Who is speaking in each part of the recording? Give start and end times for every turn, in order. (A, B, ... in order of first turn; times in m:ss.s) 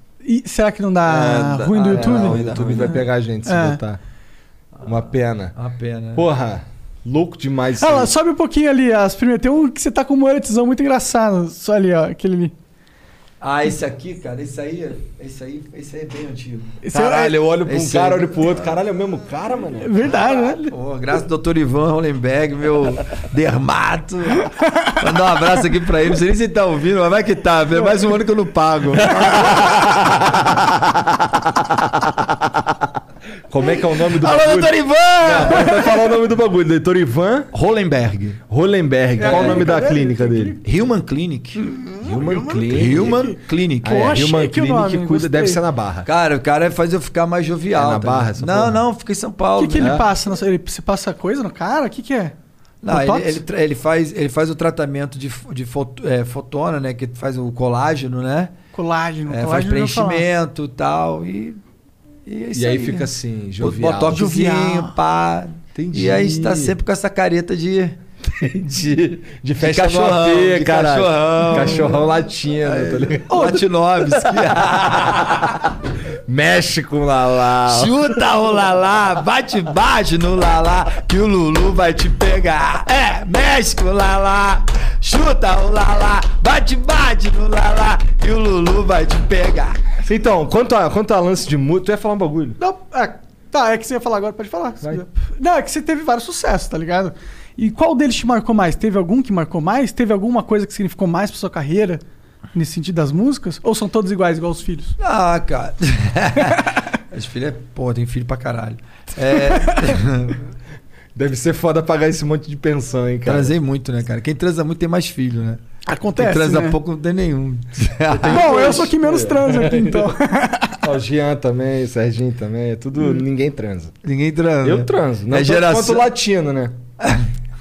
0:00.2-0:03.8 A
0:01.0-0:04.0 B
0:01.8-0:02.9 C
0:04.8-0:05.5 B
0:05.5-0:06.3 C
0:06.1-0:08.1 B
0:07.8-0:12.5 A
0:13.4-0:18.8 C
0:16.8-0:17.3 A
0:16.9-0:20.1 B
0:19.8-0:20.7 A
0:20.2-0:29.8 C
0:24.6-0:24.9 A
0:28.8-0:30.7 B
0:33.5-0:37.5 B
0:34.0-0:35.9 C
0:37.5-0:38.4 C
0:38.5-0:40.6 B
0:39.2-0:40.6 A
0:39.2-0:39.7 C
0:40.6-0:41.6 C
0:41.7-0:45.6 A
0:42.0-0:43.2 B
0:42.7-0:44.2 C
0:43.8-0:46.1 B
0:46.0-0:50.0 C
0:47.7-0:48.8 B
0:49.6-0:52.3 A
0:49.8-0:50.1 B
0:52.8-0:58.5 C
0:52.9-0:53.4 A
0:58.7-1:00.3 A
0:59.3-1:01.6 C
1:02.2-1:08.0 C
1:02.5-1:04.3 B
1:04.1-1:04.9 A
1:05.7-1:06.8 B
1:08.2-1:13.4 B
1:09.6-1:12.0 C
1:12.6-1:15.6 C
1:13.3-1:13.6 A
1:16.2-1:18.1 B
1:17.6-1:29.9 C
1:30.0-1:32.6 B
1:32.6-1:42.0 A
1:42.5-1:45.0 A
1:45.0-1:50.4 C
1:51.1-1:53.5 B
1:53.2-1:55.6 C
1:55.8-1:56.8 A
1:56.2-1:58.8 C
1:58.1-2:00.2 B
1:58.3-2:00.8 A
2:00.8-2:03.9 B
2:04.0-2:06.1 C
2:04.6-2:06.8 B
2:07.0-2:07.3 C